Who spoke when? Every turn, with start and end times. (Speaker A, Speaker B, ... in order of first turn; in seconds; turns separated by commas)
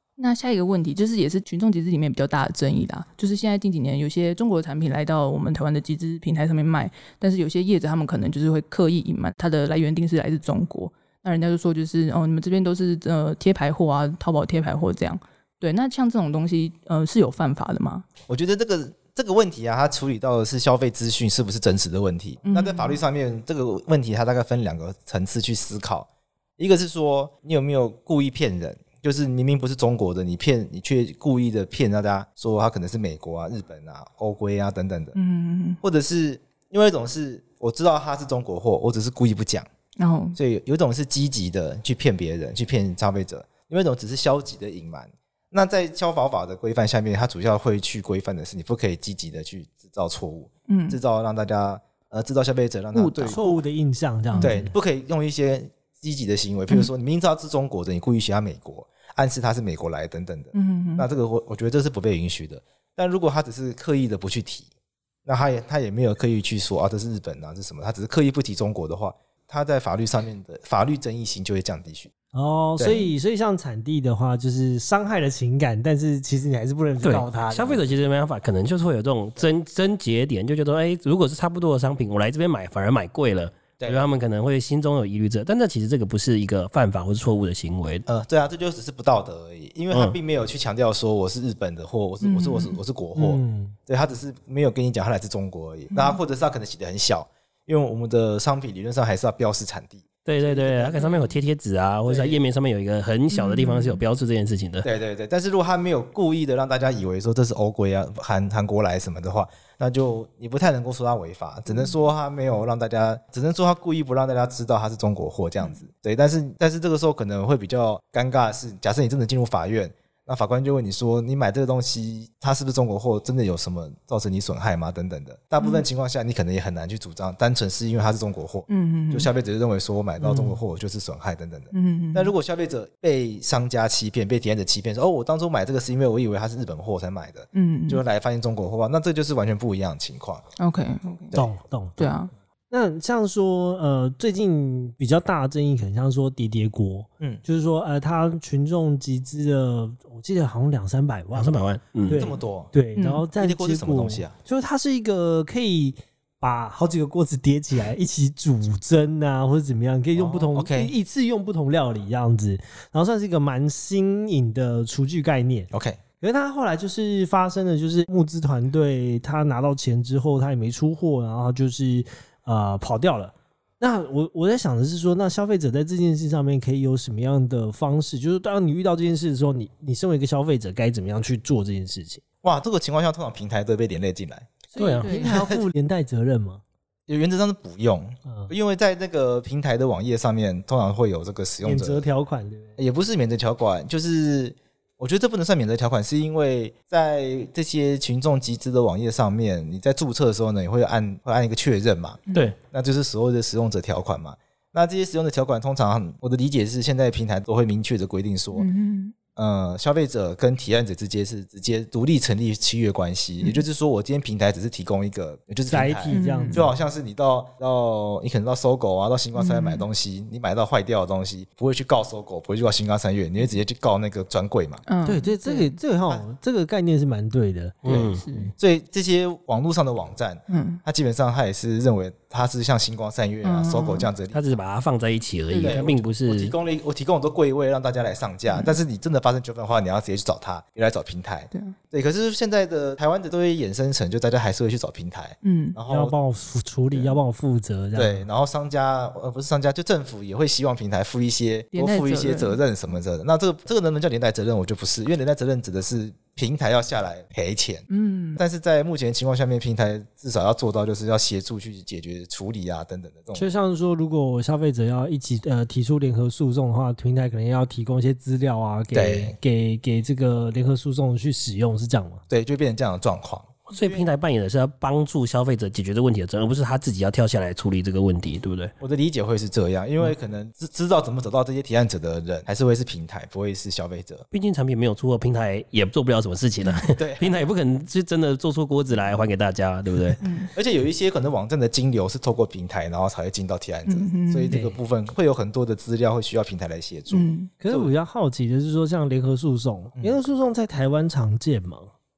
Speaker A: 0.2-18.1, Speaker B: 18.3-26.1, Speaker A: 22.4-23.0, Speaker B: 26.6-35.1, Speaker A: 35.1-35.8, Speaker B: 35.8-39.7, Speaker A: 40.0-40.4, Speaker B: 40.4-53.6, Speaker A: 50.7-51.0, Speaker A: 52.9-53.4, Speaker C: 53.2-54.7, Speaker B: 54.4-64.7, Speaker A: 60.5-61.1, Speaker B: 65.2-72.1, Speaker C: 72.3-77.9, Speaker B: 72.8-73.0, Speaker D: 77.0-88.0, Speaker B: 83.8-84.1, Speaker B: 88.1-101.0, Speaker A: 92.2-92.8, Speaker C: 93.2-93.8, Speaker A: 95.9-96.2, Speaker D: 100.2-104.9, Speaker A: 101.0-101.3, Speaker B: 102.0-102.4, Speaker A: 103.3-104.0, Speaker B: 104.8-140.4, Speaker A: 111.7-112.0, Speaker A: 125.6-125.8, Speaker A: 128.7-129.3, Speaker C: 130.2-130.6, Speaker A: 131.7-132.3, Speaker A: 137.5-138.0, Speaker A: 140.6-141.3, Speaker C: 141.3-142.1, Speaker A: 142.0-142.3, Speaker C: 142.7-182.2, Speaker D: 151.3-152.2, Speaker B: 152.1-152.7, Speaker A: 152.9-153.2, Speaker B: 153.4-154.3, Speaker B: 160.1-160.9, Speaker B: 165.7-166.0, Speaker B: 182.4-184.6, Speaker C: 184.8-186.6, Speaker D: 184.8-185.1, Speaker A: 184.8-185.5, Speaker B: 185.2-185.6, Speaker B: 187.1-192.0, Speaker C: 188.3-188.5, Speaker C: 191.6-192.8, Speaker B: 192.8-202.2, Speaker B: 202.7-208.7, Speaker A: 208.5-209.1, Speaker B: 209.4-224.8, Speaker C: 215.7-216.7, Speaker A: 216.1-216.7, Speaker A: 219.3-219.9, Speaker A: 224.9-225.8, Speaker C: 225.0-228.5, Speaker D: 227.8-228.2, Speaker A: 227.9-228.5, Speaker B: 227.9-234.6, Speaker A: 230.5-230.8, Speaker A: 233.4-234.1, Speaker D: 234.3-236.5, Speaker A: 235.5-235.9, Speaker B: 235.5-246.1, Speaker A: 238.5-238.8, Speaker A: 245.4-245.8, Speaker C: 245.9-248.3, Speaker B: 246.9-247.2, Speaker B: 247.9-263.5, Speaker A: 251.7-252.6, Speaker A: 257.9-258.4, Speaker C: 263.3-272.2, Speaker B: 268.9-269.4, Speaker B: 272.3-274.1, Speaker D: 273.7-278.7, Speaker B: 278.8-284.2, Speaker D: 284.3-290.2, Speaker B: 286.9-287.4, Speaker A: 290.2-290.5, Speaker B: 290.5-297.9, Speaker A: 293.9-294.6, Speaker C: 294.5-294.8, Speaker A: 297.1-297.5, Speaker C: 297.6-301.9